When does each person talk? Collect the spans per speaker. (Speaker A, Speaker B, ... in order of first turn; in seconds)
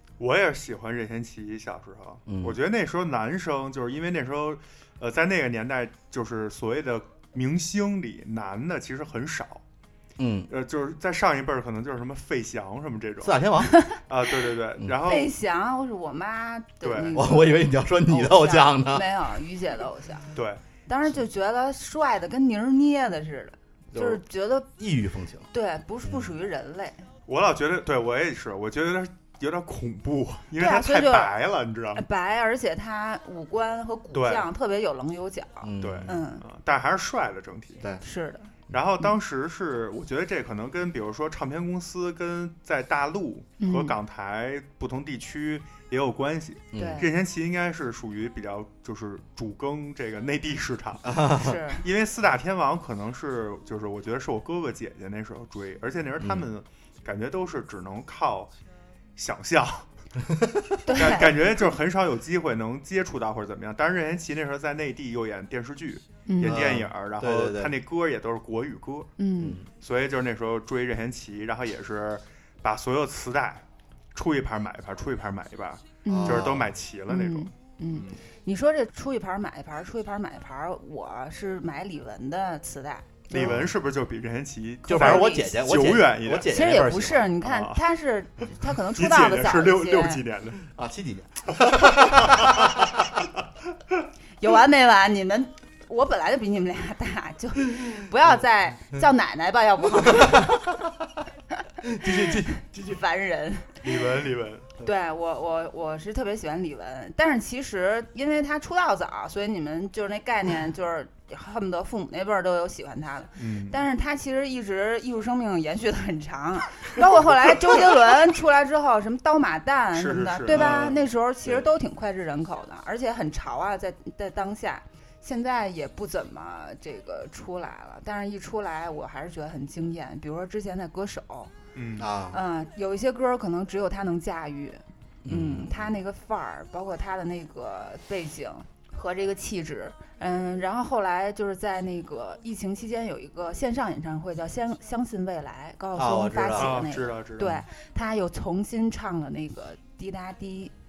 Speaker A: 0.2-9.6, 10.5-13.4, 14.1-15.3, 16.8-17.2, 20.4-20.6, 27.3-32.1, 34.1-34.5, 35.8-37.8, 38.7-51.1, 51.8-58.5, 59.2-59.9, 60.9-69.1, 69.8-73.6, 74.2-78.2, 83.3-86.6, 87.4-87.8, 88.9-90.7, 92.0-92.8, 103.8-104.7, 113.4-113.8, 119.9-121.0, 131.8-132.1, 146.6-147.7
Speaker B: 2.3-2.6, 10.2-10.5, 13.2-13.8, 17.1-19.1, 23.9-24.2, 24.8-25.5, 26.1-26.3, 35.6-36.2, 46.7-47.1, 51.0-51.6, 56.2-56.5, 60.3-60.6, 66.4-67.7, 69.4-69.7, 76.1-76.7, 83.3-83.7, 84.9-87.3, 90.7-93.0, 100.1-100.6, 101.8-103.0, 120.5-121.7, 132.0-132.4, 135.3-135.9, 145.9-146.8
Speaker C: 13.7-14.0, 15.1-20.3, 20.9-24.7, 25.5-27.0, 30.6-31.3, 31.9-36.4, 38.0-38.5, 43.6-44.0, 46.8-47.1, 51.4-51.8, 60.9-61.7, 66.3-66.6, 69.2-69.6, 76.0-76.5, 77.1-83.5, 84.8-85.5, 86.5-90.2, 94.4-100.6, 102.0-103.8, 104.8-131.5, 132.3-150.7